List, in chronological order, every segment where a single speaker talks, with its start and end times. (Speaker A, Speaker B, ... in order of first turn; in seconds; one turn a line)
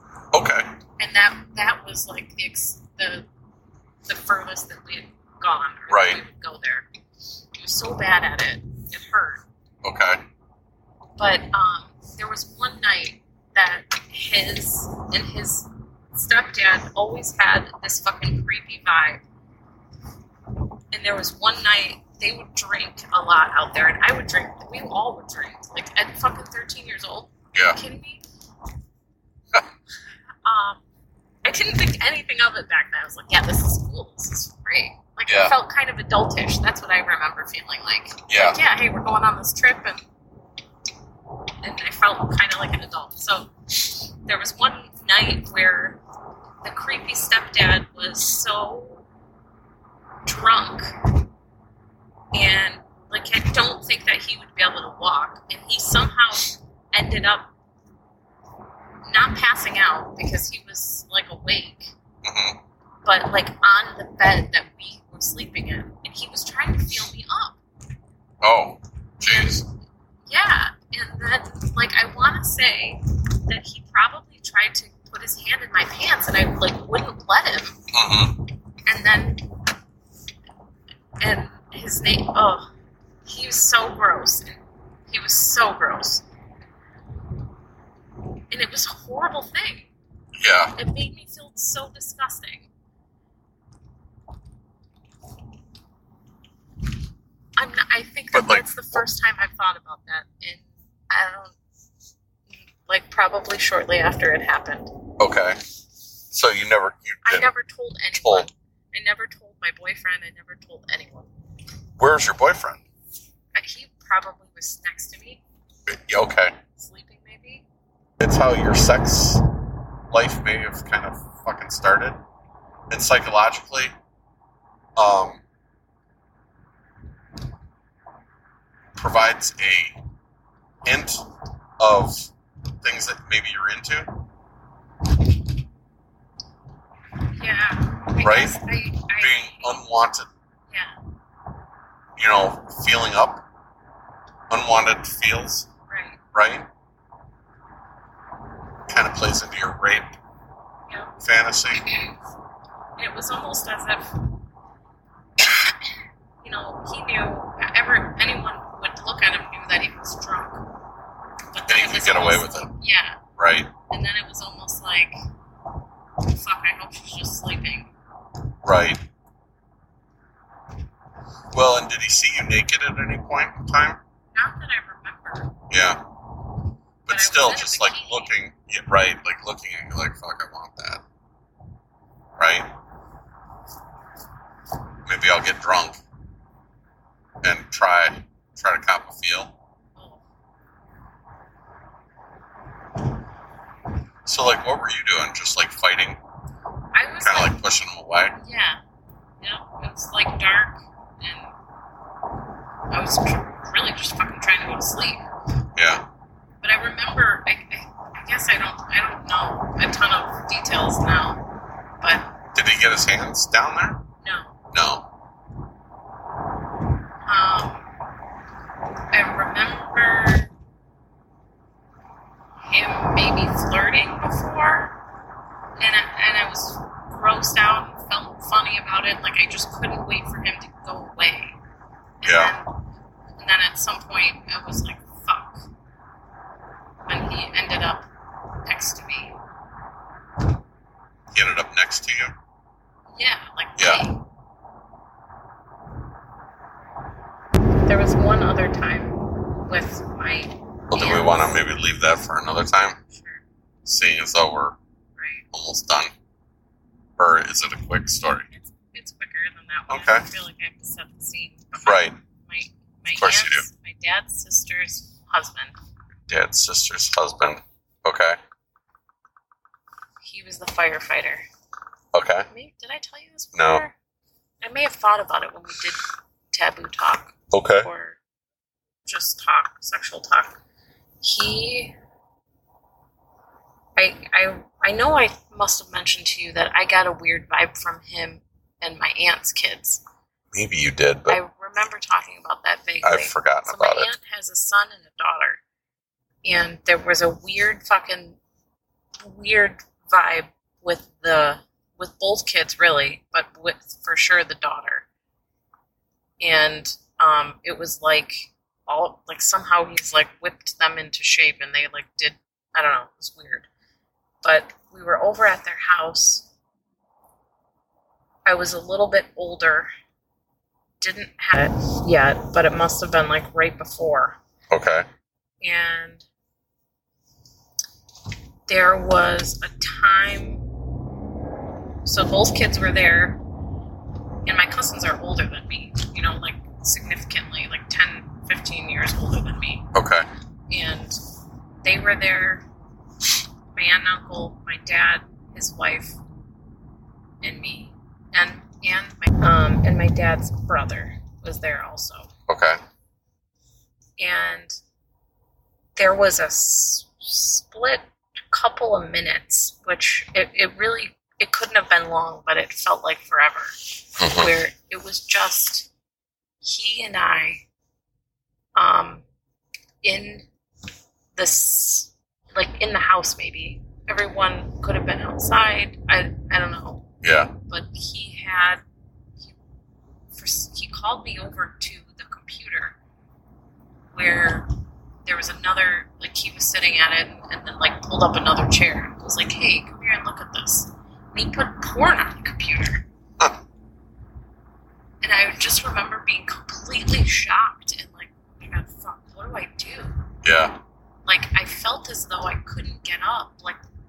Speaker A: 0.3-0.7
Speaker B: 1.0-3.3
Speaker B: 4.1-6.9
Speaker A: 5.9-6.2
Speaker B: 7.5-9.4
Speaker A: 9.8-10.2
Speaker B: 11.2-19.2
Speaker B: 20.9-28.2
Speaker A: 27.5-27.8
Speaker B: 30.4-30.8
Speaker B: 31.4-40.0
Speaker A: 35.3-35.5
Speaker A: 38.3-38.6
Speaker B: 41.6-46.0
Speaker B: 46.6-49.0
Speaker B: 50.3-50.9
Speaker B: 52.3-57.5
Speaker B: 59.1-62.0
Speaker A: 62.2-62.6
Speaker B: 63.0-67.6
Speaker A: 68.4-69.7
Speaker B: 69.2-69.7
Speaker B: 70.3-77.8
Speaker A: 77.9-78.4
Speaker B: 78.9-79.5
Speaker B: 81.2-82.7
Speaker B: 83.2-86.2
Speaker B: 88.5-89.9
Speaker A: 90.4-90.8
Speaker B: 90.8-92.7
Speaker B: 97.6-101.6
Speaker A: 98.3-99.0
Speaker B: 102.7-104.9
Speaker A: 105.2-105.6
Speaker A: 106.3-107.5
Speaker B: 107.2-111.3
Speaker A: 108.1-108.5
Speaker A: 112.0-112.8
Speaker B: 113.5-115.4
Speaker A: 115.9-116.5
Speaker B: 116.8-117.7
Speaker A: 118.2-119.5
Speaker A: 120.1-122.2
Speaker A: 122.9-123.9
Speaker A: 125.0-125.4
Speaker A: 129.0-130.0
Speaker A: 130.8-131.3
Speaker A: 131.8-132.3
Speaker A: 132.8-134.2
Speaker B: 137.3-139.8
Speaker A: 138.2-138.6
Speaker A: 139.2-140.3
Speaker B: 140.7-141.0
Speaker A: 142.2-143.4
Speaker A: 144.5-145.7
Speaker B: 145.9-146.2
Speaker A: 146.3-146.7
Speaker A: 148.9-150.2
Speaker B: 150.9-151.2
Speaker A: 151.2-151.8
Speaker B: 151.7-152.3
Speaker B: 153.0-154.2
Speaker B: 156.4-160.7
Speaker B: 161.5-163.2
Speaker A: 161.7-162.7
Speaker A: 163.4-163.7
Speaker B: 163.9-165.2
Speaker B: 166.2-167.9
Speaker A: 168.6-169.0
Speaker A: 171.5-174.0
Speaker B: 174.3-175.5
Speaker A: 175.7-176.0
Speaker A: 177.1-181.0
Speaker B: 177.1-178.3
Speaker A: 182.4-182.7
Speaker A: 185.1-186.0
Speaker A: 187.4-189.5
Speaker B: 190.0-190.2
Speaker A: 194.2-196.2
Speaker B: 196.9-197.6
Speaker A: 197.2-198.4
Speaker B: 198.4-198.8
Speaker B: 199.4-201.5
Speaker B: 202.9-205.2
Speaker A: 205.8-206.1
Speaker B: 206.6-211.4
Speaker B: 212.0-212.3
Speaker A: 212.5-214.0
Speaker B: 214.2-214.6
Speaker A: 214.7-215.1
Speaker B: 217.3-217.9
Speaker B: 219.1-220.5
Speaker B: 222.6-225.0
Speaker B: 225.8-231.6
Speaker B: 232.2-232.8
Speaker A: 232.2-232.5
Speaker B: 233.4-235.7
Speaker B: 237.1-238.1
Speaker B: 238.7-239.3
Speaker A: 241.3-242.3
Speaker B: 243.1-244.2
Speaker A: 243.8-244.1
Speaker B: 247.9-251.7
Speaker A: 250.9-253.0
Speaker B: 253.1-253.4
Speaker A: 253.8-254.8
Speaker B: 255.2-255.4
Speaker A: 255.5-256.1
Speaker A: 257.2-258.5
Speaker B: 258.5-265.8
Speaker A: 259.9-260.3
Speaker A: 261.8-262.2
Speaker A: 263.1-263.7
Speaker A: 266.3-268.4
Speaker B: 270.2-271.4
Speaker A: 272.1-272.5
Speaker B: 272.5-273.9
Speaker A: 273.6-273.9
Speaker B: 274.6-278.2
Speaker A: 277.5-277.9
Speaker B: 279.1-280.6
Speaker B: 281.2-281.9
Speaker B: 284.0-290.0
Speaker A: 290.5-291.4
Speaker B: 291.3-295.6
Speaker A: 293.0-294.1
Speaker B: 296.4-298.4
Speaker B: 299.3-305.1
Speaker B: 306.4-313.7
Speaker B: 314.4-316.5
Speaker B: 318.5-319.9
Speaker B: 321.0-324.4
Speaker A: 324.7-325.1
Speaker B: 325.6-326.2
Speaker B: 328.7-330.7
Speaker B: 332.1-333.4
Speaker B: 334.5-339.9
Speaker A: 339.9-340.3
Speaker B: 340.7-341.2
Speaker B: 341.8-342.6
Speaker B: 343.7-346.2
Speaker B: 347.4-352.3
Speaker A: 352.5-352.8
Speaker B: 354.2-354.8
Speaker B: 356.0-363.7
Speaker A: 364.2-364.5
Speaker B: 364.2-365.9
Speaker B: 366.6-367.6
Speaker B: 368.8-369.2
Speaker B: 370.0-370.5
Speaker B: 371.4-377.1
Speaker A: 377.2-377.5
Speaker B: 377.6-378.8
Speaker B: 380.3-383.0
Speaker B: 384.1-384.7
Speaker B: 385.2-393.0
Speaker B: 395.2-400.2
Speaker A: 400.4-400.8
Speaker B: 401.3-403.8